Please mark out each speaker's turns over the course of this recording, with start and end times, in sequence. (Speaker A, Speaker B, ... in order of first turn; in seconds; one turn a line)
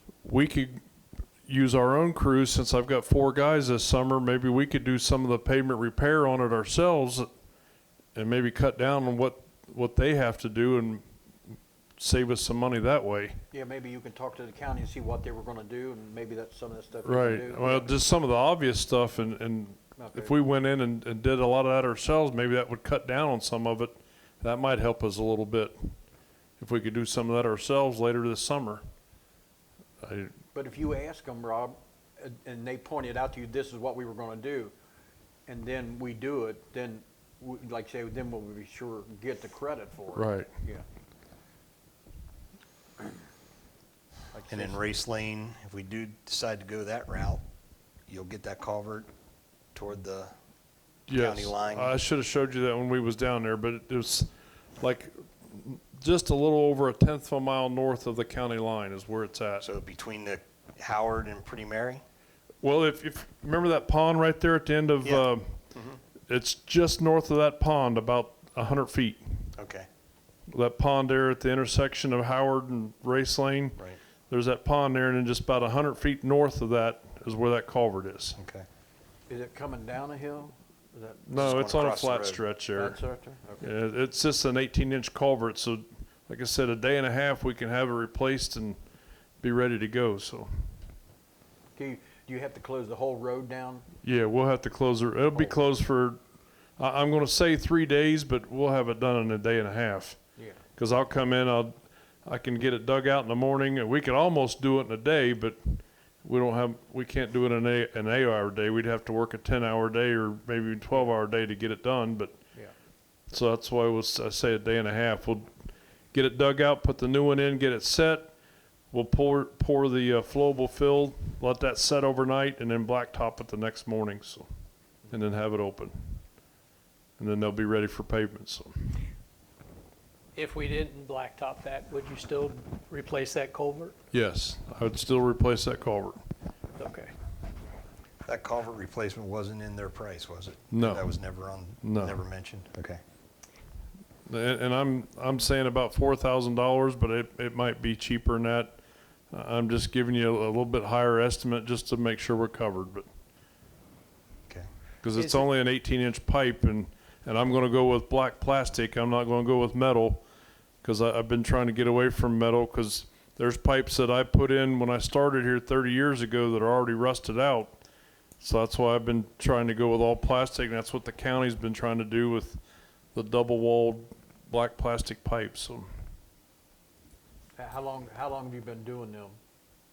Speaker A: 0.2-0.8
Speaker A: 1.4-7.3
Speaker A: 8.1-13.4
Speaker B: 13.5-18.0
Speaker A: 17.0-25.9
Speaker B: 20.0-20.4
Speaker A: 26.6-28.8
Speaker A: 30.0-30.3
Speaker B: 30.5-34.7
Speaker B: 35.5-40.8
Speaker A: 40.1-40.5
Speaker B: 44.3-44.8
Speaker C: 44.5-47.4
Speaker C: 48.1-49.1
Speaker C: 49.7-50.3
Speaker A: 51.1-59.7
Speaker C: 51.1-52.0
Speaker C: 59.6-62.0
Speaker A: 62.6-65.6
Speaker C: 65.0-66.0
Speaker A: 66.3-69.5
Speaker C: 69.5-69.9
Speaker A: 70.5-78.4
Speaker C: 78.3-78.7
Speaker B: 79.3-81.6
Speaker A: 81.2-83.0
Speaker C: 81.4-82.4
Speaker B: 82.7-83.6
Speaker A: 83.6-88.8
Speaker A: 89.4-90.5
Speaker B: 91.8-93.9
Speaker A: 94.0-96.2
Speaker A: 96.8-100.2
Speaker A: 100.8-112.3
Speaker A: 113.3-115.5
Speaker A: 116.1-118.3
Speaker A: 118.9-124.5
Speaker A: 125.1-126.2
Speaker A: 127.2-129.0
Speaker D: 130.3-133.9
Speaker A: 134.1-136.2
Speaker D: 136.8-137.1
Speaker C: 138.2-143.0
Speaker A: 140.7-141.2
Speaker A: 141.8-142.2
Speaker A: 144.3-148.8
Speaker A: 149.3-153.1
Speaker A: 155.0-160.2
Speaker D: 155.2-155.4
Speaker A: 160.8-167.8
Speaker A: 168.4-172.6
Speaker A: 173.1-175.9
Speaker B: 177.6-179.4